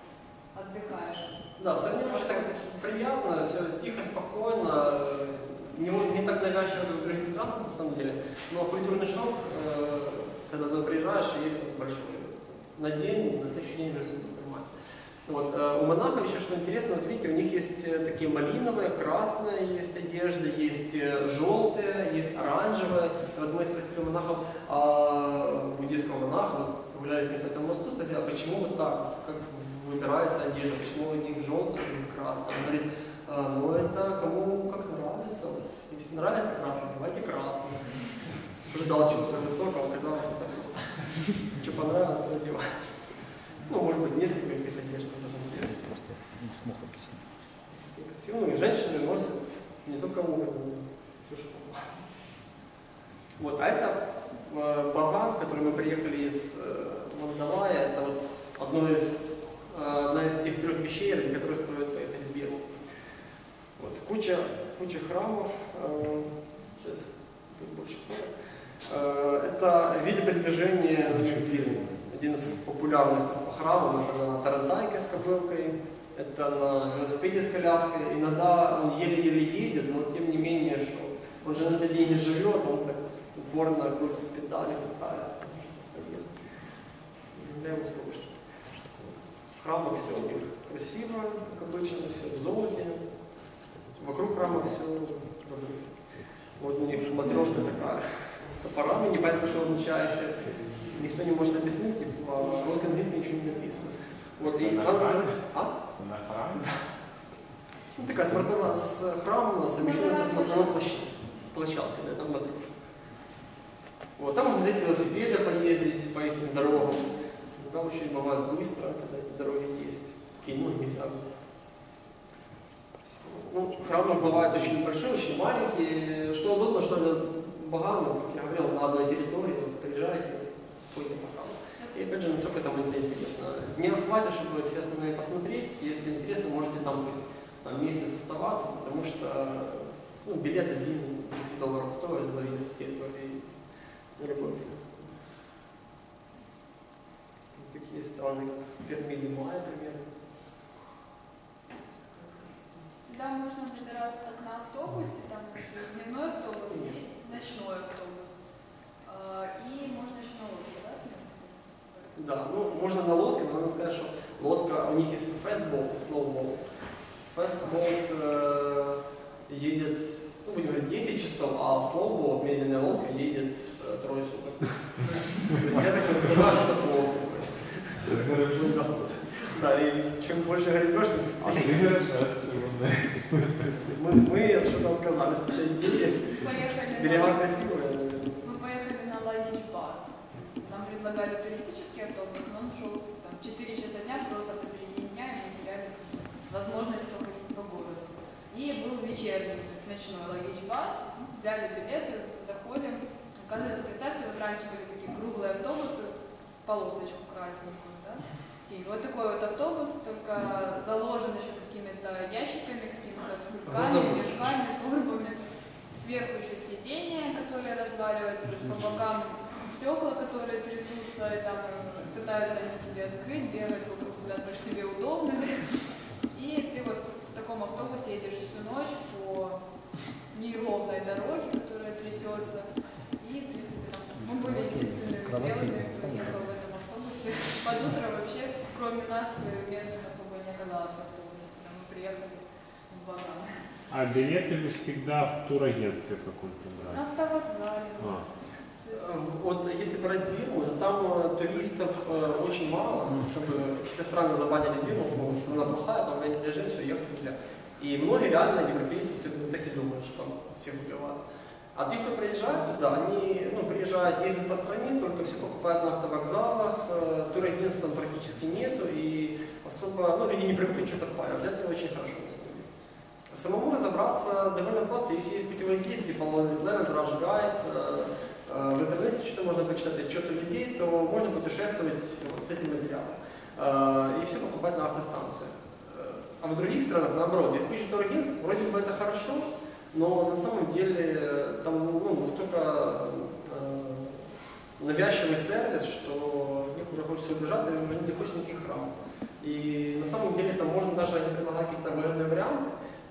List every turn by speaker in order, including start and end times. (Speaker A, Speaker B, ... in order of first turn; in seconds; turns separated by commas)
Speaker A: 0.3-2.8, Speaker B: 1.6-14.7, Speaker B: 15.3-42.7, Speaker B: 43.6-45.9, Speaker C: 45.8-47.3, Speaker B: 47.7-51.9, Speaker B: 53.4-62.7, Speaker B: 63.8-68.3, Speaker B: 68.8-86.6, Speaker B: 87.3-93.3, Speaker B: 93.9-105.9, Speaker D: 104.4-106.7, Speaker B: 107.9-112.8, Speaker A: 109.8-110.8, Speaker B: 114.2-121.3, Speaker B: 123.2-143.6, Speaker B: 144.2-145.2, Speaker B: 147.6-150.1, Speaker A: 153.0-158.3, Speaker B: 156.7-157.0, Speaker A: 159.0-162.2, Speaker B: 162.2-181.9, Speaker D: 178.1-178.6, Speaker D: 181.4-183.7, Speaker B: 183.6-188.5, Speaker A: 186.4-187.8, Speaker A: 188.4-243.5, Speaker B: 213.7-214.5, Speaker C: 234.3-236.4, Speaker D: 243.9-247.1, Speaker A: 246.9-248.3, Speaker D: 248.0-248.3, Speaker A: 248.8-249.2, Speaker B: 248.9-261.2, Speaker B: 261.7-272.7, Speaker B: 273.3-302.7